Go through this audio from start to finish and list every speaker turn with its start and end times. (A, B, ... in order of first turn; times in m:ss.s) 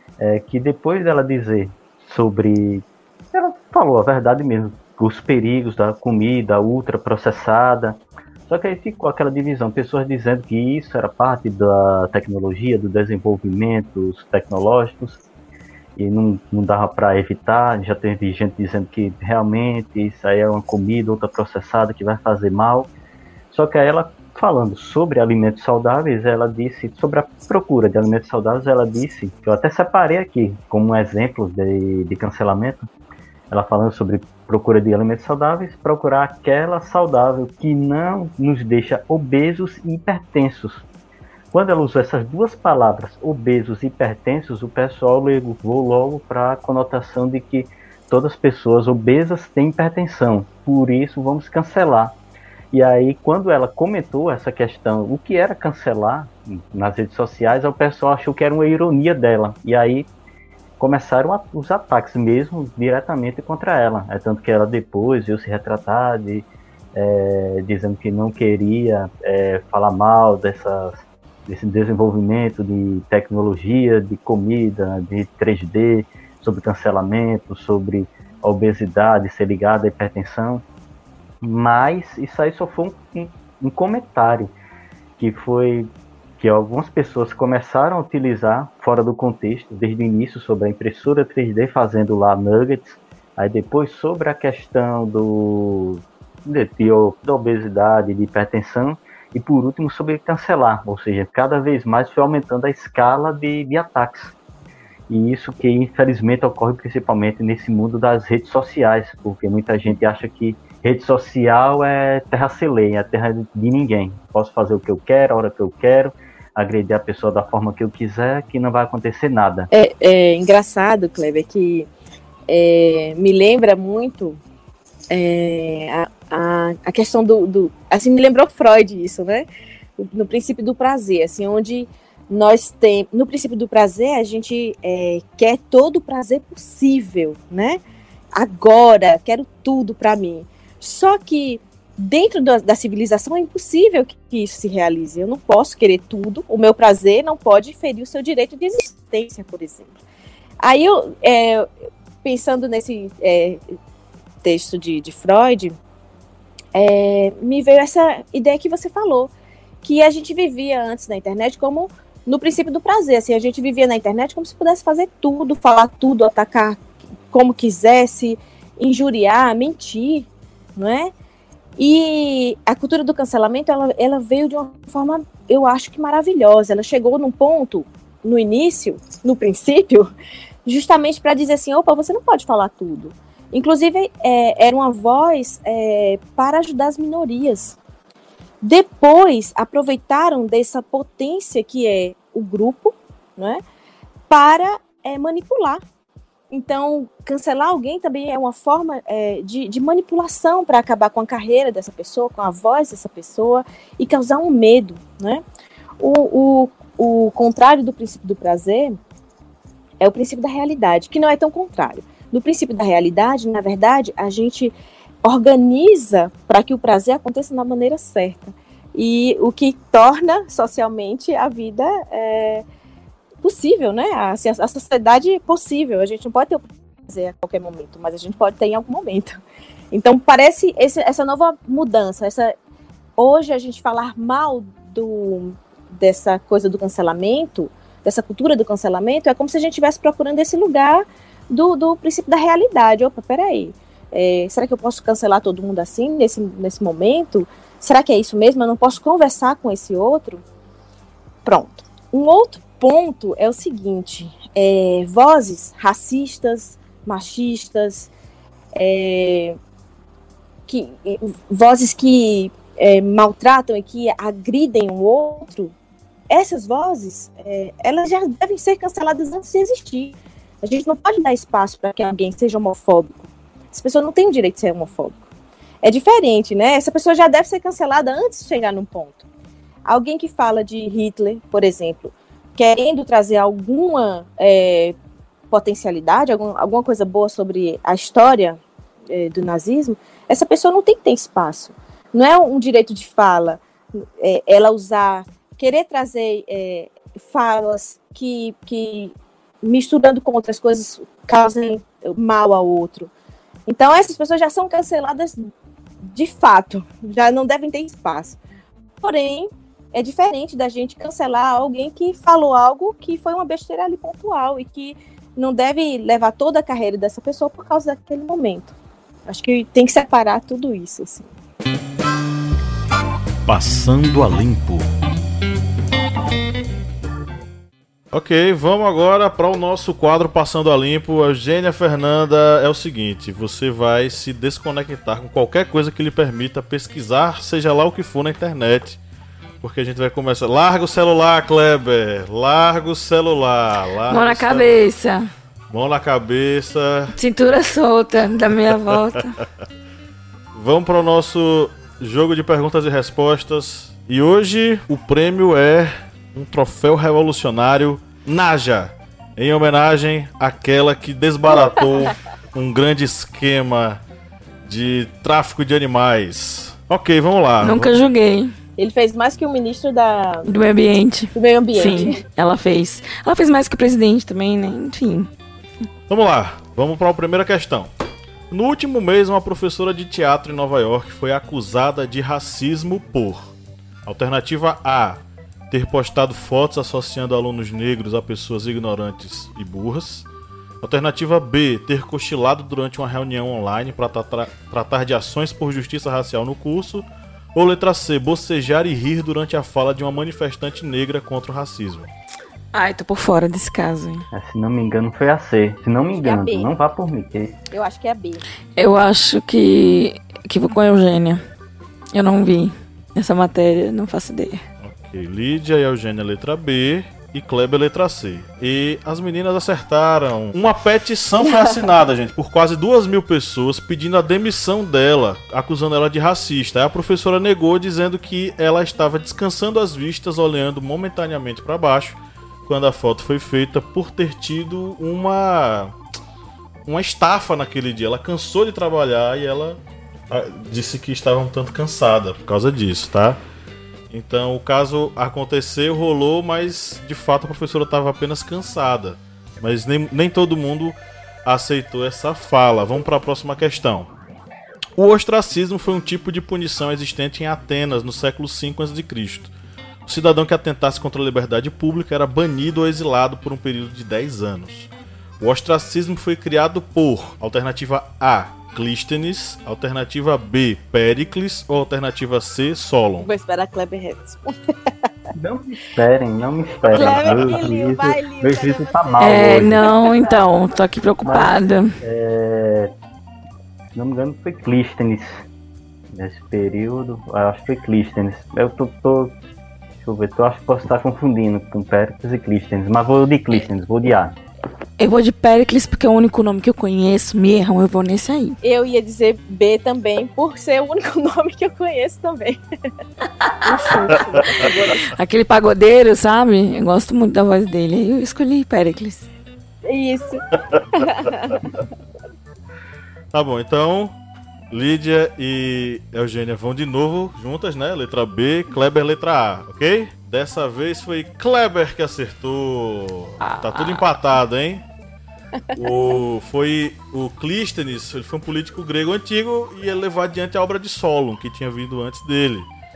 0:00.2-0:15.2 A
0:16.0-0:22.9 A
0:23.5-0:32.8 A
0:33.5-0:40.8 A
0:41.5-0:52.2 A
0:52.7-1:00.1 A
1:00.8-1:20.6 A
1:21.4-1:24.5 A
1:25.2-1:44.3 A
1:45.1-1:59.7 A
1:59.7-2:01.9 B
2:02.5-2:04.4 B
2:05.1-2:09.4 B
2:10.0-2:17.8 B
2:18.3-2:29.9 B
2:30.6-2:31.7 B
2:32.2-2:33.6 B
2:34.4-2:35.8 B
2:36.7-2:39.3 B
2:39.8-2:46.8 B
2:47.3-2:51.1 B
2:51.8-3:00.1 B
3:00.6-3:07.8 B
3:08.6-3:13.6 B
3:14.3-3:15.8 B
3:16.5-3:25.4 B
3:26.0-3:29.0 B
3:30.0-3:42.6 B
3:43.4-3:49.4 B
3:49.9-3:52.5 B
3:53.2-4:10.4 B
4:11.4-4:18.1 B
4:18.7-4:19.6 B
4:20.7-4:25.7 B
4:26.3-4:35.2 B
4:35.8-4:39.2 B
4:39.8-4:44.9 B
4:45.5-4:48.6 B
4:49.1-5:03.1 B
5:03.7-5:05.5 B
5:06.0-5:08.4 B
5:09.0-5:18.7 B
5:19.3-5:21.3 B
5:23.4-5:24.9 C
5:28.1-5:39.0 C
5:39.6-5:44.7 C
5:44.1-5:45.3 D
5:45.7-5:47.1 C
5:47.1-5:49.4 D
5:50.5-6:04.0 C
6:04.6-6:07.9 C
6:07.6-6:08.5 D
6:08.8-6:10.5 B
6:10.4-6:15.3 D
6:11.3-6:12.2 B
6:16.1-6:17.9 C
6:18.5-6:23.5 C
6:24.0-6:30.3 C
6:30.8-6:42.1 C
6:42.7-6:44.2 D
6:44.3-6:47.6 A
6:46.2-6:46.7 B
6:47.7-6:48.4 B
6:48.8-6:51.4 D
6:52.1-6:54.6 D
6:54.8-7:15.9 C
7:16.8-7:19.8 C
7:20.3-7:23.4 C
7:24.1-7:34.1 C
7:35.0-7:39.5 C
7:40.0-7:44.9 C
7:45.4-7:53.3 C
7:53.2-7:54.9 B
7:55.3-7:59.9 A
7:56.9-8:00.4 B
7:56.9-7:57.6 C
7:59.2-8:02.0 D
8:01.2-8:02.9 A
8:03.9-8:05.4 A
8:06.1-8:09.4 A
8:10.0-8:14.4 A
8:15.0-8:18.6 D
8:18.6-8:22.6 B
8:23.4-8:29.3 D
8:23.6-8:25.1 B
8:29.8-8:31.7 B
8:33.3-8:34.1 C
8:34.7-8:44.8 C
8:43.4-8:44.0 D
8:45.7-8:52.7 C